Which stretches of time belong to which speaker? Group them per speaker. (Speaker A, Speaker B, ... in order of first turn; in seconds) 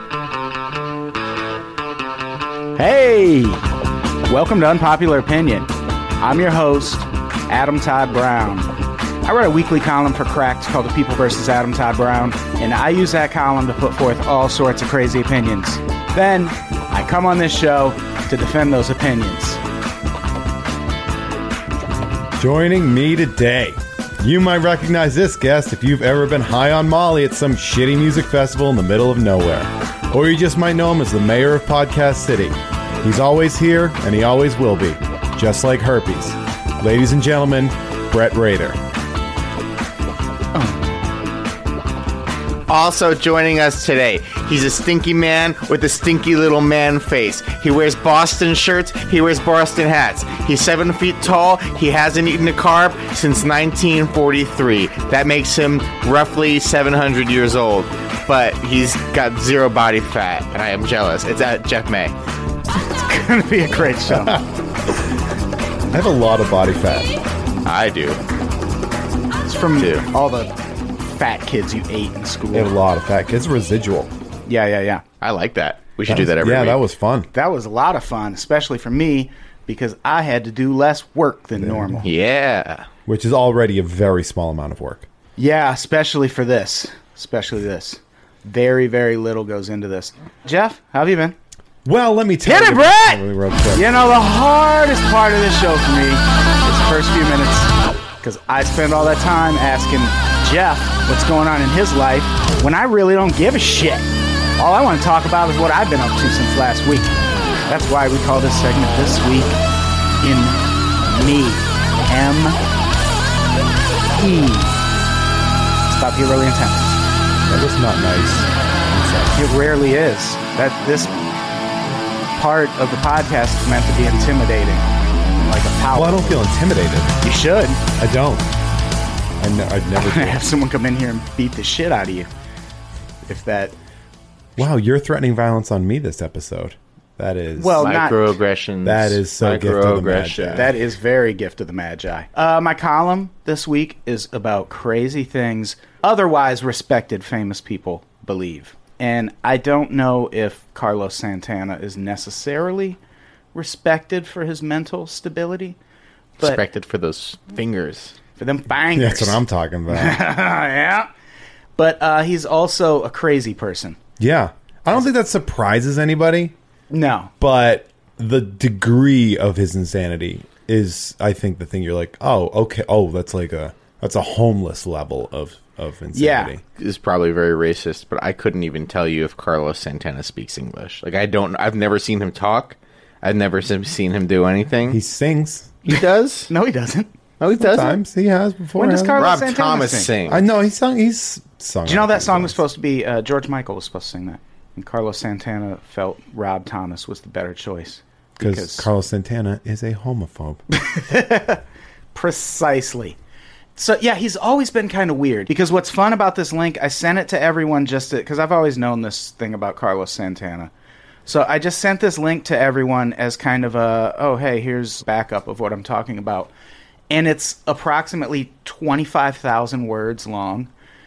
Speaker A: 2.8-3.6, 4.2-8.7, 9.2-19.6, 62.8-64.4, 69.5-70.5, 71.0-72.7, 74.5-75.0, 77.3-82.0, 85.4-91.3, 92.4-97.7, 98.2-107.1, 107.7-109.6, 110.2-112.6, 114.1-114.8, 115.9-117.0, 119.3-121.2, 122.3-126.5, 127.2-127.8, 130.0-132.3, 133.2-133.8, 137.6-138.3, 140.5-153.0, 153.5-155.8, 158.4-161.1, 161.8-164.0, 166.9-167.3, 176.1-176.5, 185.9-187.1, 188.8-190.1, 191.8-198.9, 200.7-201.6, 202.1-203.2, 203.8-210.7, 211.2-216.5, 217.1-220.7
Speaker B: 22.2-38.8, 64.1-64.4, 65.9-67.1, 72.5-74.1, 76.1-77.3, 81.6-82.0, 83.1-85.1, 91.8-93.9, 117.5-119.4, 125.9-127.1, 128.0-128.5, 129.4-130.4, 134.6-137.9, 138.8-140.7, 158.9-160.2, 164.2-166.5, 167.4-176.6, 184.9-185.7, 187.5-189.3, 190.3-192.6, 198.4-200.6
Speaker C: 42.7-62.1, 67.6-68.2, 69.8-70.0, 75.2-76.8, 82.0-82.9, 137.8-140.7, 156.4-158.1, 176.8-185.0, 185.8-186.5, 187.4-188.0, 189.2-190.4